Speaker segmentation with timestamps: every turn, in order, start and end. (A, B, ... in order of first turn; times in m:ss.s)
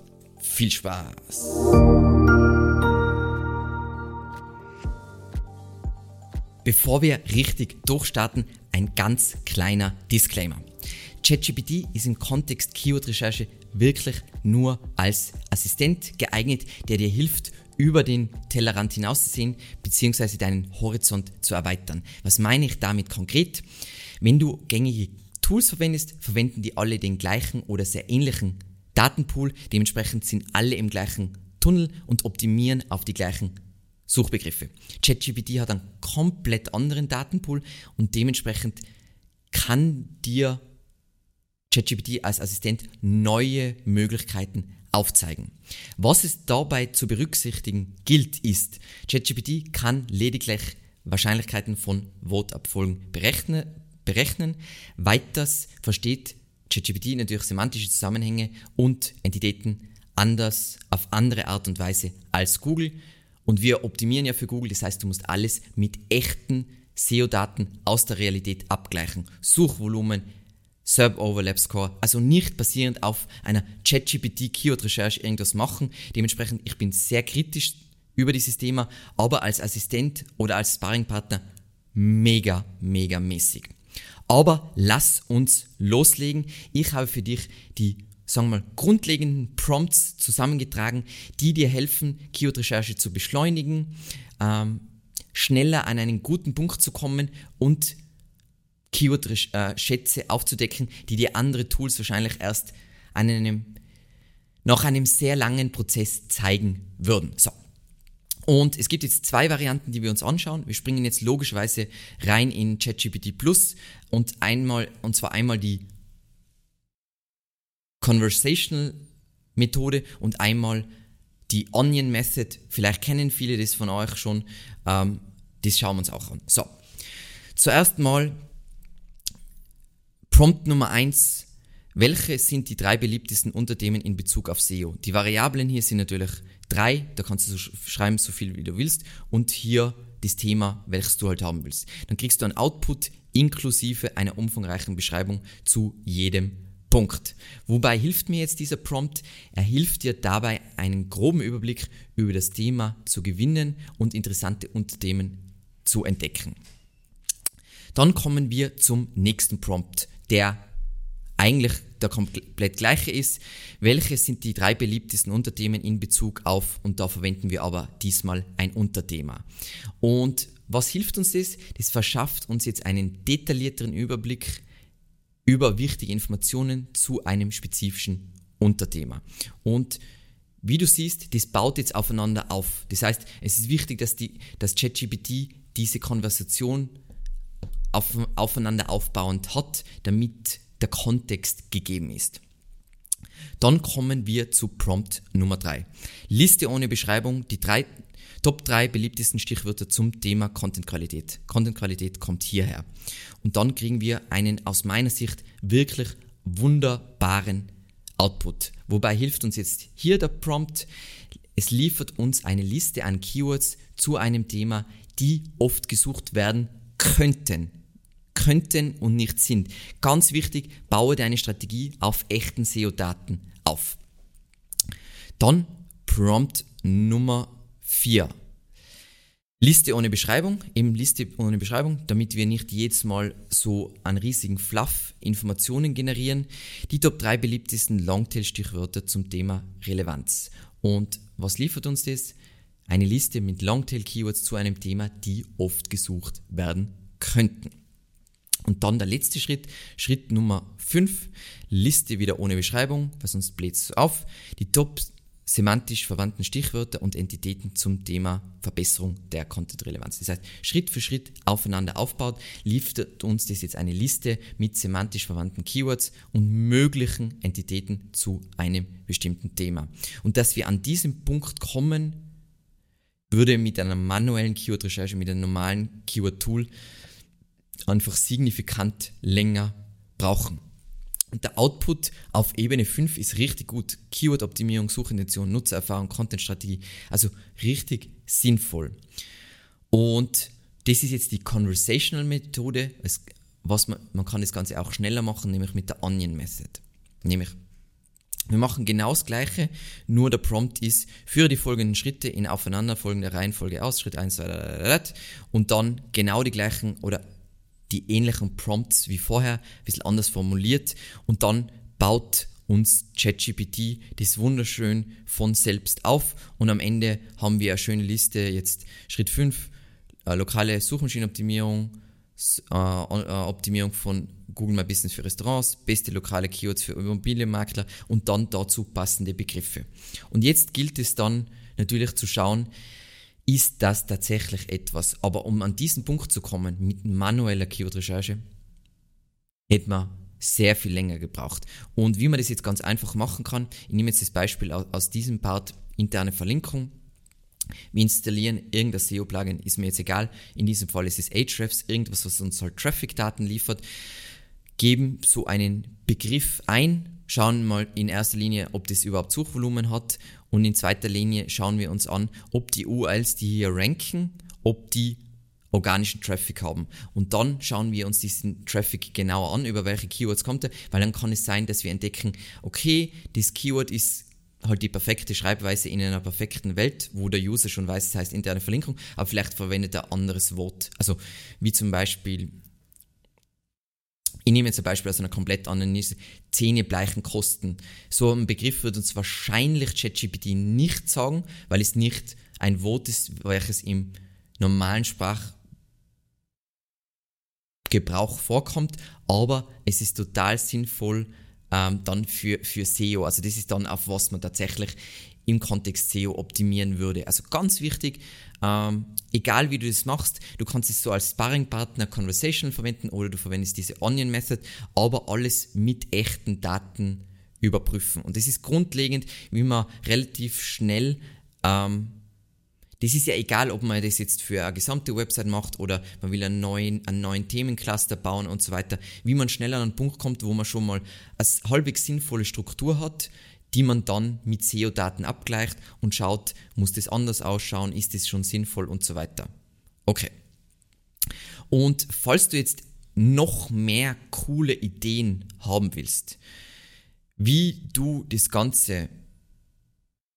0:00.4-0:01.6 A
0:06.6-0:10.6 A
0:11.2-0:23.6 A
0:24.2-0:33.5 A
0:34.1-0:38.8 A
0:39.5-0:40.6 A
0:41.7-1:10.3 A
1:10.8-1:21.4 A
1:21.9-1:23.7 A
1:24.3-1:38.0 A
1:38.9-1:43.8 A
1:44.6-1:47.5 A
1:48.4-1:55.8 A
1:58.0-1:59.0 A
1:59.6-2:00.9 A
2:01.5-2:06.7 A
2:07.6-2:08.4 A
2:10.3-2:36.6 A
2:37.9-2:40.6 A
2:41.4-2:49.5 A
2:50.0-2:54.6 A
2:55.5-3:00.0 A
3:00.6-3:06.9 A
3:07.9-3:12.4 A
3:13.6-3:17.9 A
3:18.4-3:22.9 A
3:23.4-3:30.9 A
3:31.6-3:37.7 A
3:38.3-3:44.0 A
3:45.4-3:48.3 A
3:49.6-4:02.3 A
4:02.9-4:07.7 A
4:08.6-4:32.2 A
4:33.3-4:36.7 A
4:37.9-4:40.6 A
4:41.3-4:49.0 A
4:49.9-4:57.6 A
4:58.5-5:07.2 A
5:07.9-5:19.7 A
5:20.3-5:32.7 A
5:33.5-5:38.4 A
5:39.7-5:46.9 A
5:47.9-5:53.8 A
5:54.8-6:05.2 A
6:05.7-6:22.5 A
6:24.4-6:35.6 A
6:37.9-7:02.2 A
7:03.0-7:19.5 A
7:20.1-7:20.3 A
7:21.7-7:26.4 A
7:27.4-7:29.1 A